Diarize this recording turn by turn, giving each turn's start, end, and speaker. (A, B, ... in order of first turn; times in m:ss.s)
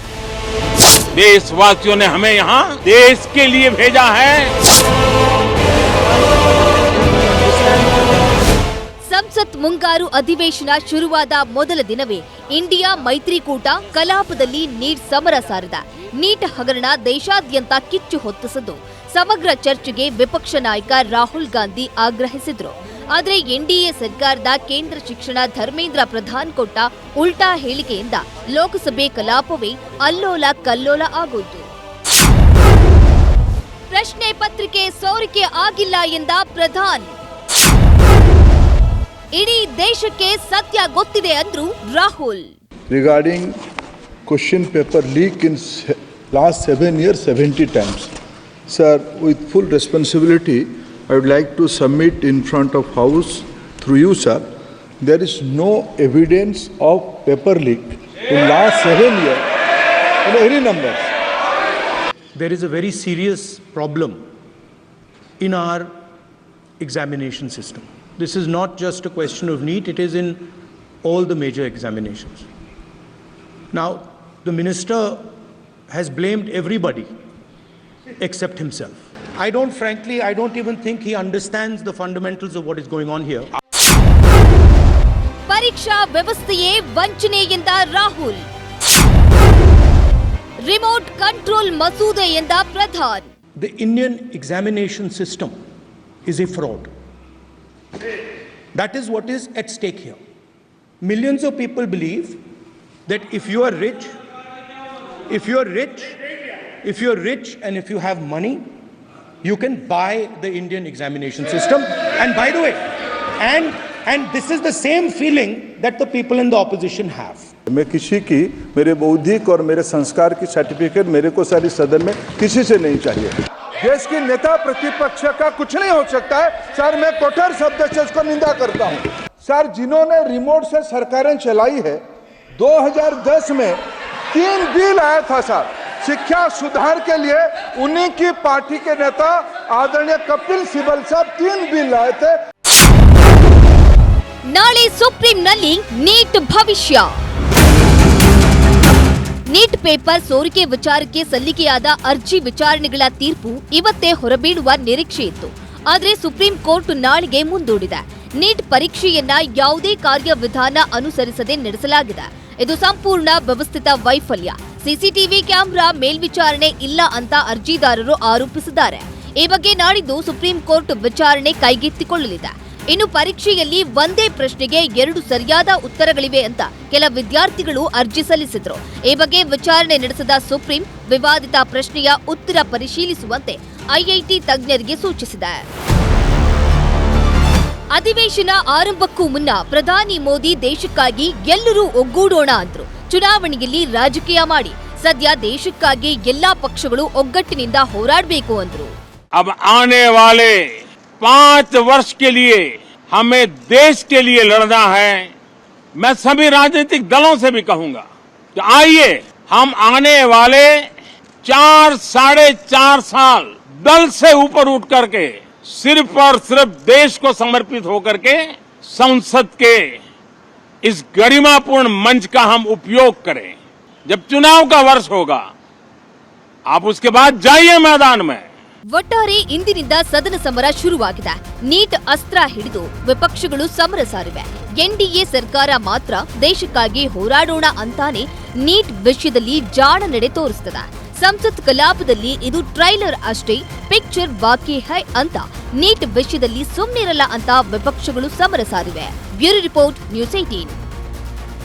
0:01.1-0:04.5 A
0:09.1-0:31.7 B
0:33.9-0:37.1 B
0:39.3-0:42.5 B
0:42.9-0:43.5 C
0:44.3-0:48.1 C
0:48.7-0:54.5 C
0:55.0-0:59.4 C
1:00.2-1:01.1 C
1:02.4-1:04.2 D
1:05.4-1:05.9 D
1:06.8-1:10.5 D
1:11.0-1:12.4 D
1:13.7-1:15.3 D
1:15.9-1:17.0 D
1:18.3-1:23.4 D
1:25.5-1:28.4 B
1:30.6-1:33.3 B
1:33.6-1:35.5 D
1:36.3-1:36.9 D
1:38.7-1:40.2 D
1:41.0-1:42.4 D
1:43.1-1:44.1 D
1:45.3-1:46.1 D
1:46.8-1:48.6 D
1:49.4-1:52.8 D
1:53.4-1:57.5 D
1:57.7-2:12.0 C
2:12.6-2:13.8 C
2:14.3-2:22.4 C
2:24.5-2:27.1 B
2:29.5-3:05.7 B
3:07.9-3:18.9 B
3:19.4-3:20.6 A
3:21.2-3:25.3 A
3:26.0-3:28.0 A
3:28.6-3:30.9 A
3:31.4-3:40.0 A
3:40.8-3:43.6 A
3:44.1-3:45.4 A
3:46.7-3:48.5 A
3:48.9-4:10.8 B